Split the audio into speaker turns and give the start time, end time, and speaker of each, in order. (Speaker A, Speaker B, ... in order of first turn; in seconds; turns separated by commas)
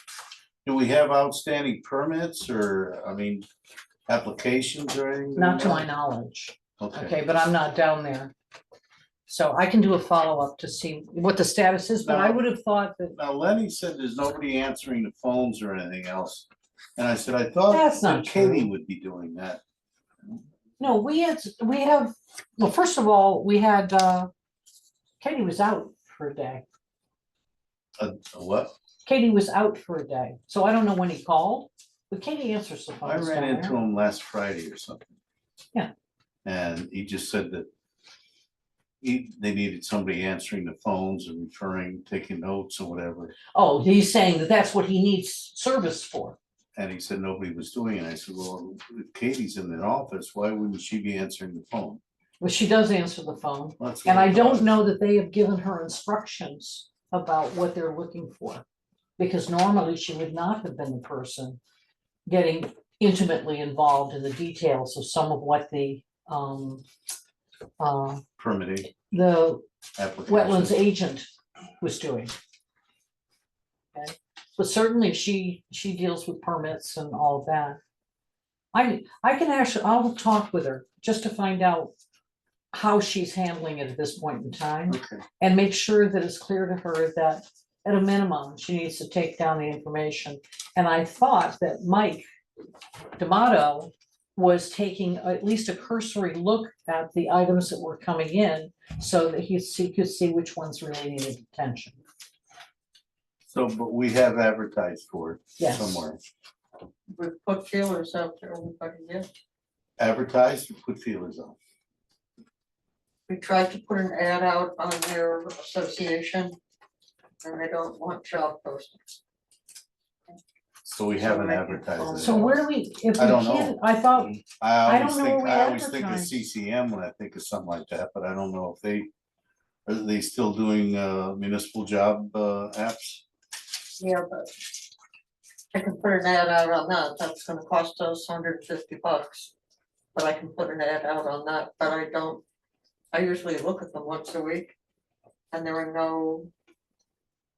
Speaker A: 0.7-3.5, Speaker A: 4.1-5.9, Speaker B: 5.4-8.3, Speaker A: 6.8-7.2, Speaker B: 9.3-13.2, Speaker A: 12.0-12.4, Speaker A: 13.2-19.6, Speaker B: 17.7-18.7, Speaker B: 20.8-24.3, Speaker B: 25.2-26.6, Speaker A: 28.0-28.7, Speaker B: 29.1-33.8, Speaker A: 33.0-35.1, Speaker A: 36.5-37.7, Speaker A: 39.0-43.4, Speaker B: 43.5-46.4, Speaker A: 46.8-52.0, Speaker B: 52.4-58.6, Speaker A: 53.8-54.8, Speaker B: 59.2-61.6, Speaker B: 62.3-66.8, Speaker B: 67.8-68.2, Speaker A: 68.4-68.9, Speaker B: 69.0-69.6, Speaker A: 70.0-70.8, Speaker B: 70.3-71.3, Speaker B: 71.8-72.3, Speaker B: 73.9-77.8, Speaker B: 78.7-81.9, Speaker B: 82.7-92.2, Speaker A: 84.9-85.2, Speaker B: 93.2-102.0, Speaker A: 103.5-106.2, Speaker B: 105.6-106.0, Speaker C: 107.2-109.3, Speaker A: 110.0-111.6, Speaker C: 113.3-116.6, Speaker C: 117.4-119.2, Speaker A: 120.9-122.6, Speaker C: 121.2-122.6, Speaker B: 122.2-126.4, Speaker A: 123.2-123.8, Speaker A: 124.5-129.1, Speaker A: 129.9-133.2, Speaker C: 134.0-134.6, Speaker C: 135.7-139.5, Speaker C: 140.2-142.4, Speaker C: 143.1-144.8, Speaker C: 145.5-146.5